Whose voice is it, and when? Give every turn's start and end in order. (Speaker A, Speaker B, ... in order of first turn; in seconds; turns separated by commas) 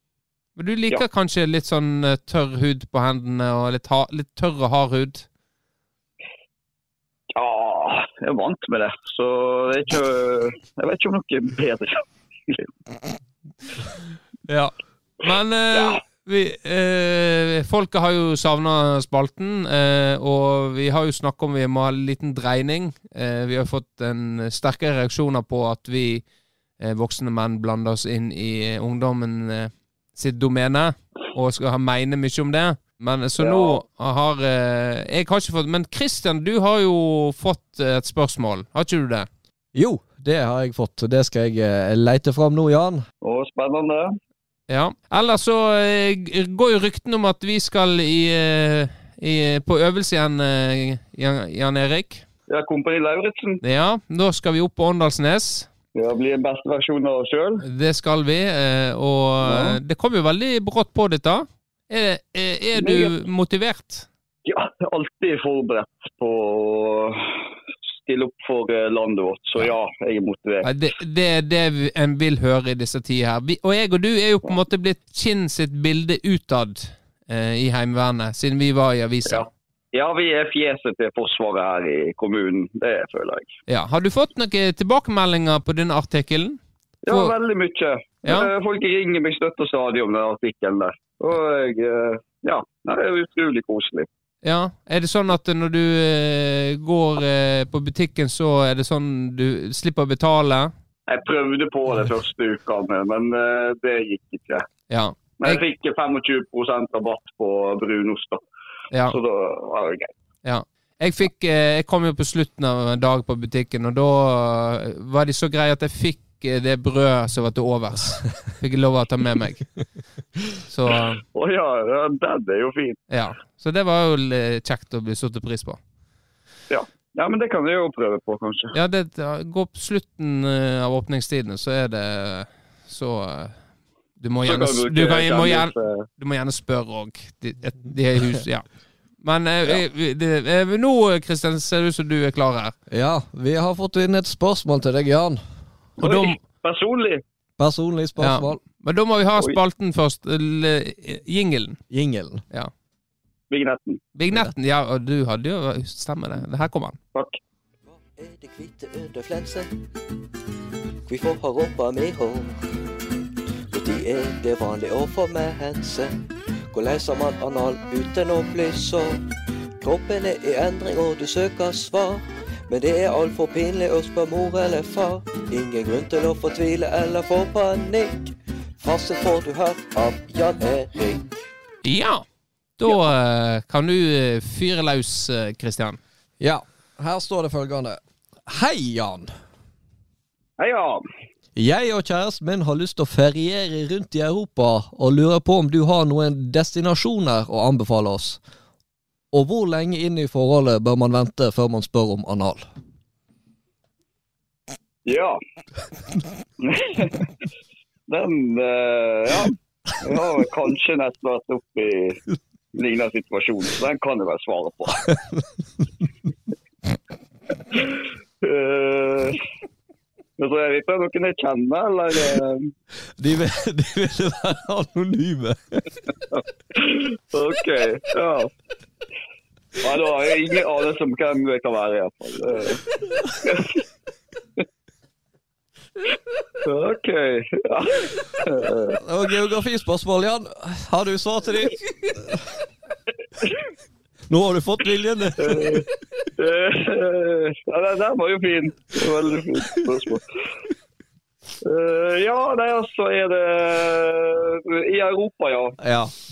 Speaker A: 0.6-5.3, Speaker B: 7.3-12.7, Speaker A: 14.5-26.3, Speaker B: 15.7-16.0, Speaker A: 26.8-39.3, Speaker B: 33.4-33.8, Speaker C: 39.7-43.1, Speaker B: 43.2-44.1, Speaker A: 44.7-52.3, Speaker B: 52.5-53.6, Speaker A: 53.6-55.7, Speaker B: 56.0-57.6, Speaker A: 57.6-64.1, Speaker B: 59.4-59.8, Speaker B: 62.8-63.1, Speaker B: 64.5-67.2, Speaker B: 68.1-70.8, Speaker A: 70.6-79.5, Speaker B: 79.3-83.5, Speaker A: 83.7-87.3, Speaker B: 87.1-94.1, Speaker A: 94.4-100.7, Speaker B: 101.1-104.7, Speaker A: 104.9-105.6, Speaker B: 105.4-108.4, Speaker A: 108.9-109.2, Speaker B: 109.1-110.1, Speaker A: 110.4-119.7, Speaker A: 120.7-121.2, Speaker B: 121.3-123.0, Speaker A: 123.1-125.8, Speaker B: 126.7-128.8, Speaker A: 128.7-133.7, Speaker A: 134.2-138.7, Speaker B: 134.4-136.1, Speaker A: 139.2-142.8, Speaker C: 142.9-145.4, Speaker B: 146.0-147.2, Speaker A: 146.0-146.4, Speaker C: 147.6-148.6, Speaker A: 148.2-151.8, Speaker C: 151.9-152.4, Speaker B: 153.5-154.0, Speaker A: 154.2-157.0, Speaker D: 157.9-159.7, Speaker D: 161.1-162.6, Speaker D: 163.7-166.1, Speaker D: 166.7-169.2, Speaker D: 169.8-181.2, Speaker A: 181.8-182.2, Speaker A: 182.8-186.0, Speaker C: 186.4-189.3, Speaker B: 190.6-191.0, Speaker C: 191.6-198.4, Speaker C: 199.3-202.7, Speaker B: 205.1-205.4, Speaker B: 206.6-207.2, Speaker B: 208.1-212.2, Speaker B: 212.7-215.1, Speaker B: 218.4-219.4, Speaker B: 220.4-222.7, Speaker C: 223.2-225.9, Speaker B: 226.3-228.5, Speaker B: 229.8-232.8, Speaker B: 233.4-233.8, Speaker B: 236.6-239.0, Speaker C: 239.0-242.4, Speaker C: 244.3-245.8, Speaker B: 245.4-245.9, Speaker B: 246.4-250.2, Speaker B: 251.7-255.8, Speaker C: 255.8-256.1